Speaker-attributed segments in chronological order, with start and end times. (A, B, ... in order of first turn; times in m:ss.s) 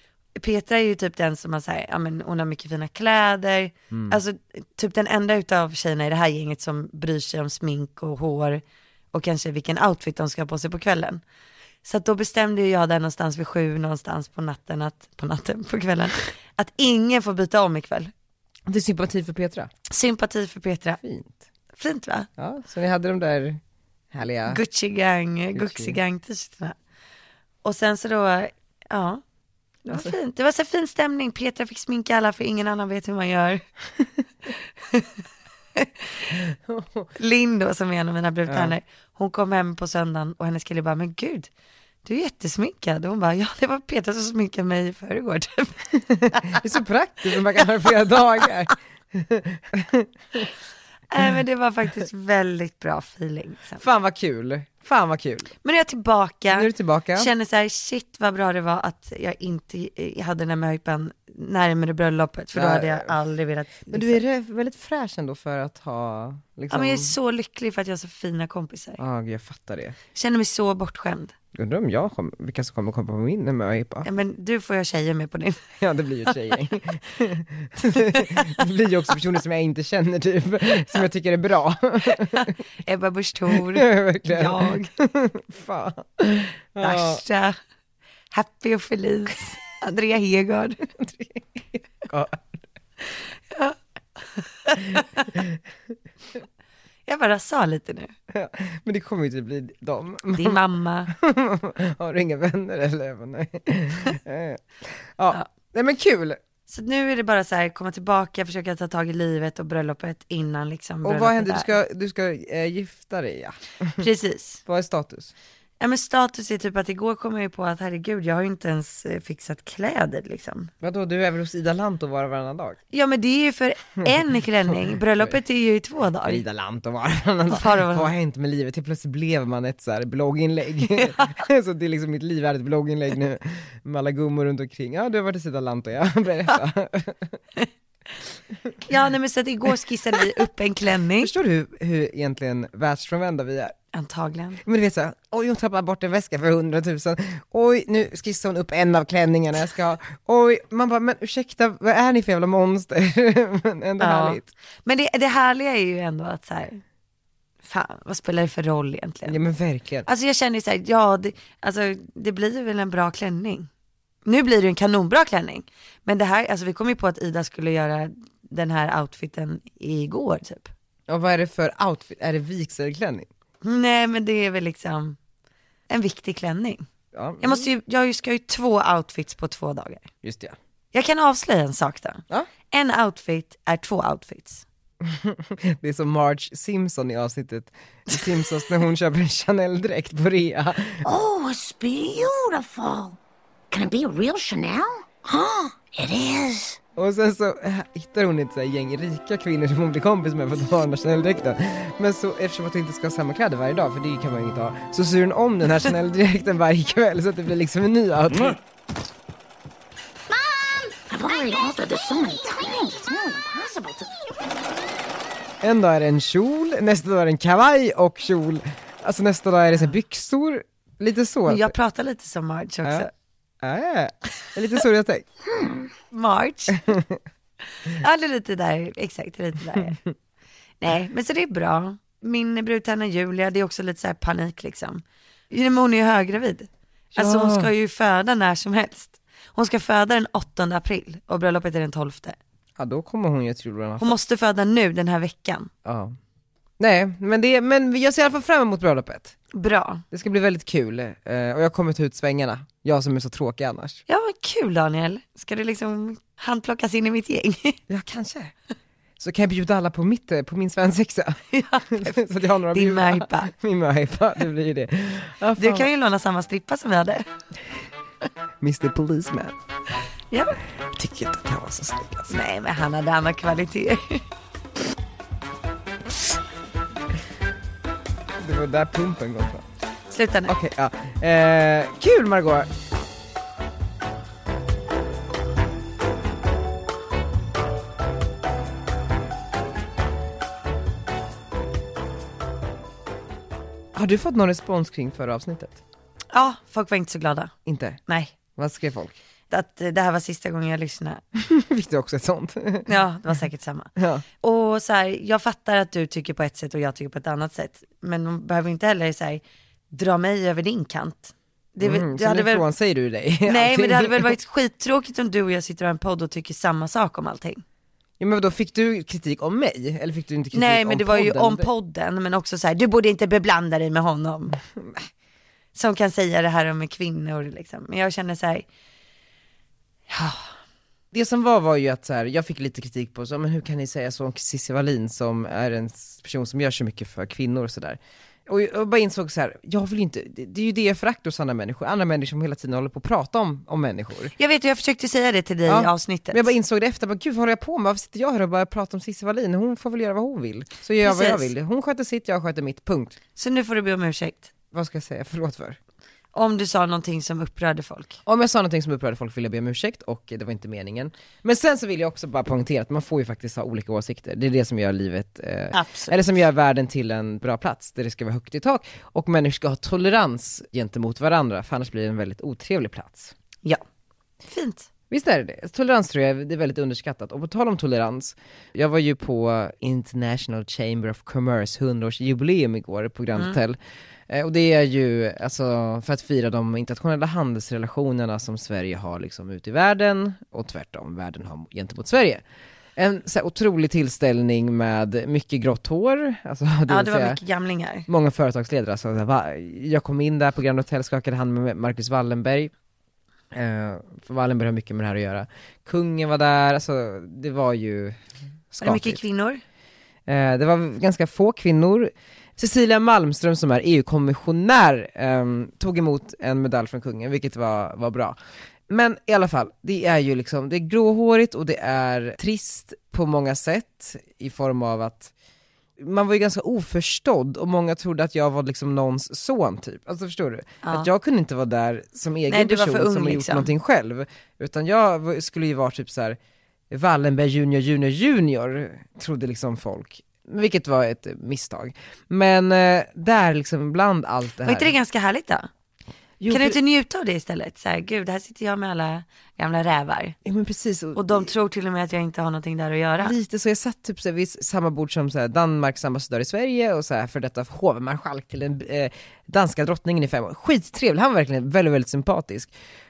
0:00.4-0:11.2 A
0:03.9-0:04.2 B
0:11.8-0:18.1 A
0:18.7-0:19.7 B
0:19.9-0:21.0 A
0:21.0-0:21.4 B
0:21.8-0:22.3 A
0:22.4-0:23.6 B
0:24.1-0:24.6 B
0:24.5-0:26.8 A
0:25.5-0:26.0 B
0:27.6-0:29.2 A
0:29.8-0:33.6 A
0:36.4-0:37.1 B
0:37.2-0:41.5 A
0:38.5-0:38.7 B
0:42.0-0:46.6 A
0:46.2-0:50.4 B
0:51.1-0:53.8 A
0:53.8-0:55.5 B
0:55.6-1:04.2 A
0:56.5-0:57.3 B
1:02.5-1:03.1 B
1:03.9-1:07.1 B
1:06.7-1:09.0 A
1:09.0-1:10.0 B
1:10.1-1:11.3 A
1:11.5-1:14.1 B
1:14.0-1:15.6 A
1:15.8-1:22.5 B
1:18.0-1:18.6 A
1:22.2-1:24.9 A
1:23.5-1:27.2 B
1:26.8-1:27.6 A
1:28.3-1:30.8 A
1:30.9-1:32.6 B
1:33.5-1:33.8 A
1:34.3-1:35.3 A
1:35.0-1:35.6 B
1:37.1-1:38.1 A
1:38.3-1:46.4 B
1:40.3-1:41.1 A
1:46.7-1:51.7 A
1:51.0-1:54.0 B
1:54.0-1:54.6 A
1:54.6-1:55.3 B
1:55.8-2:00.7 A
2:00.8-2:02.8 B
2:02.9-2:06.4 A
2:06.2-2:17.4 B
2:07.5-2:08.1 A
2:18.8-2:21.3 A
2:21.2-2:23.8 B
2:23.9-2:24.6 A
2:24.6-2:34.5 B
2:34.0-2:36.8 A
2:37.6-2:39.4 A
2:39.2-2:40.1 B
2:40.0-2:43.7 A
2:44.2-2:50.7 A
2:51.1-2:53.3 B
2:53.6-2:55.2 A
2:55.9-2:56.8 A
2:57.1-2:57.7 B
2:57.4-3:00.1 A
3:00.2-3:00.6 B
3:00.9-3:04.6 A
3:05.0-3:11.0 B
3:11.0-3:13.2 C
3:13.7-3:16.8 C
3:17.0-3:28.6 B
3:30.3-3:34.3 C
3:35.6-3:41.7 B
3:41.5-3:43.1 A
3:43.6-3:45.3 B
3:46.1-3:47.0 A
3:46.8-3:47.2 B
3:47.8-3:50.0 A
3:50.8-4:02.4 A
3:57.1-3:57.7 B
4:02.8-4:04.2 B
4:04.0-4:05.7 A
4:05.8-4:06.2 B
4:06.8-4:09.4 B
4:09.5-4:10.0 A
4:10.1-4:14.0 B
4:14.1-4:17.8 A
4:17.9-4:18.5 B
4:19.2-4:25.9 B
4:21.5-4:23.5 A
4:25.6-4:27.2 A
4:28.6-4:29.6 B
4:30.3-4:30.6 A
4:30.9-4:32.3 B
4:32.3-4:34.2 A
4:38.4-4:39.6 B
4:40.1-4:40.5 A
4:40.5-4:42.7 B
4:53.9-4:55.8 B
4:56.3-4:57.5 A
4:57.6-4:59.2 B
4:58.1-4:58.3 A
4:59.5-5:01.2 A
5:01.4-5:02.9 B
5:02.9-5:03.9 A
5:04.0-5:04.2 B
5:04.4-5:12.6 A
5:11.8-5:14.4 B
5:13.5-5:17.6 A
5:18.2-5:21.7 B
5:20.5-5:24.6 A
5:24.8-5:25.0 B
5:25.8-5:28.6 A
5:30.1-5:30.5 A
5:31.1-5:44.3 B
5:44.4-5:46.5 A
5:45.6-5:53.2 B
5:51.0-5:51.5 A
5:53.4-5:54.5 A
5:54.7-5:55.8 B
5:56.3-5:58.2 A
5:58.2-6:13.3 B
6:05.7-6:06.2 A
6:14.4-6:14.9 A
6:15.1-6:23.8 B
6:24.3-6:32.4 B
6:33.0-6:37.4 B
6:36.9-6:38.1 A
6:38.1-6:42.7 B
6:43.5-6:48.2 B
6:48.7-6:49.2 B
6:48.8-6:49.6 A
6:50.3-6:58.4 B
6:58.9-7:05.3 B
7:06.0-7:16.4 B
7:10.8-7:11.1 A
7:12.5-7:13.7 A
7:16.9-7:24.9 B
7:24.6-7:25.7 A
7:26.4-7:26.8 B
7:26.5-7:30.4 A
7:30.4-7:31.5 B
7:31.2-7:33.3 A
7:33.2-7:42.7 B